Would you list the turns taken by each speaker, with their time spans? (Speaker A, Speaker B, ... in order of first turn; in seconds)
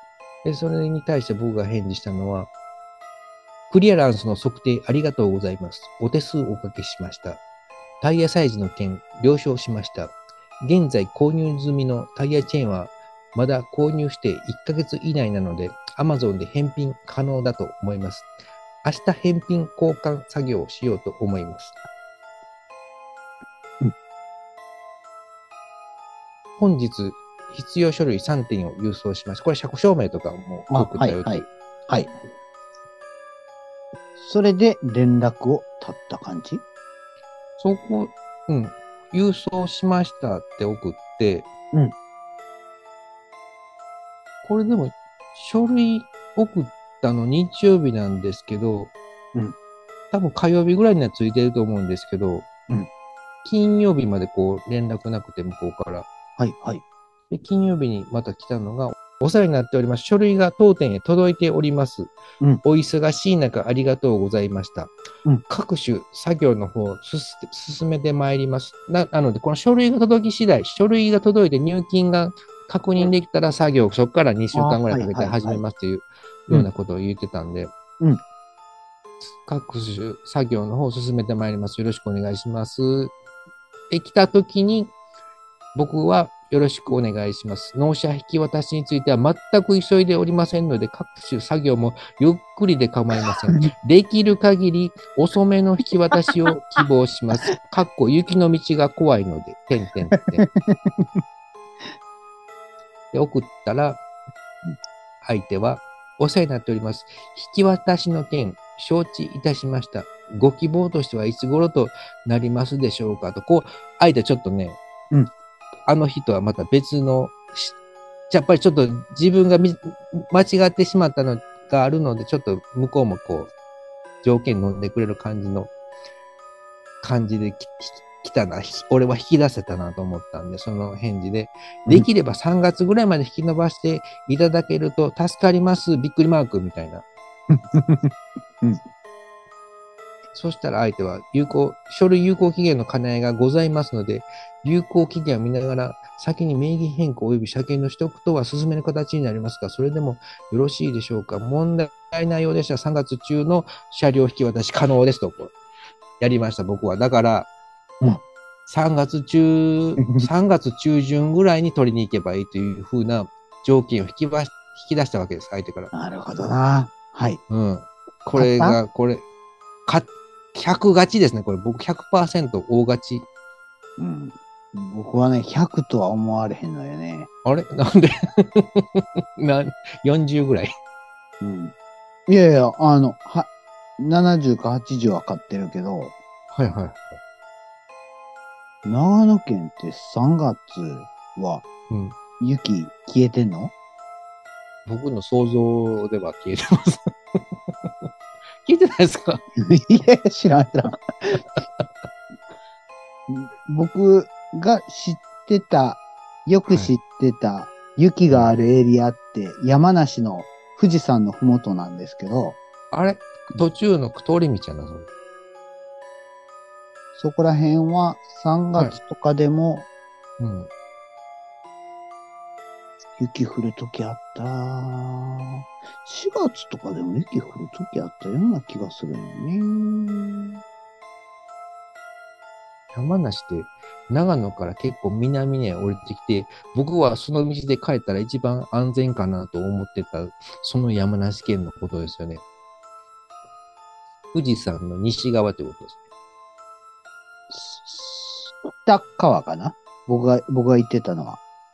Speaker A: 0.4-2.5, 3.7-7.4, 8.0-18.3, 18.8-21.8, 26.6-31.5, 37.6-41.5, 44.4-48.9, 50.1-52.5, 53.4-56.1, 57.3-62.1, 62.6-64.9, 65.5-77.7, 79.2-83.1, 83.9-84.9, 85.7-100.5, 103.1-104.0, 105.2-114.8, 115.9-117.8, 118.3-123.5, 124.2-125.7, 127.0-137.0, 140.3-155.5, 156.2-157.5, 158.7-165.9, 167.5-169.2, 169.9-173.2, 177.4-180.7, 186.5-187.2, 191.9-192.2, 194.8-197.9, 198.6-199.4, 206.7-206.9, 208.3-208.6, 212.9-215.1, 220.4-220.7, 232.9-242.4, 244.3-246.0
Speaker B: 30.7-32.1, 34.2-36.6, 56.4-56.8, 74.5-75.6, 100.4-101.2, 137.5-138.8, 160.0-160.3, 165.9-167.4, 168.3-168.8, 174.0-177.3, 181.4-181.7, 182.3-186.1, 188.8-191.6, 192.4-193.7, 199.6-201.4, 203.3-212.6, 217.2-219.9, 223.2-230.6, 247.5-251.4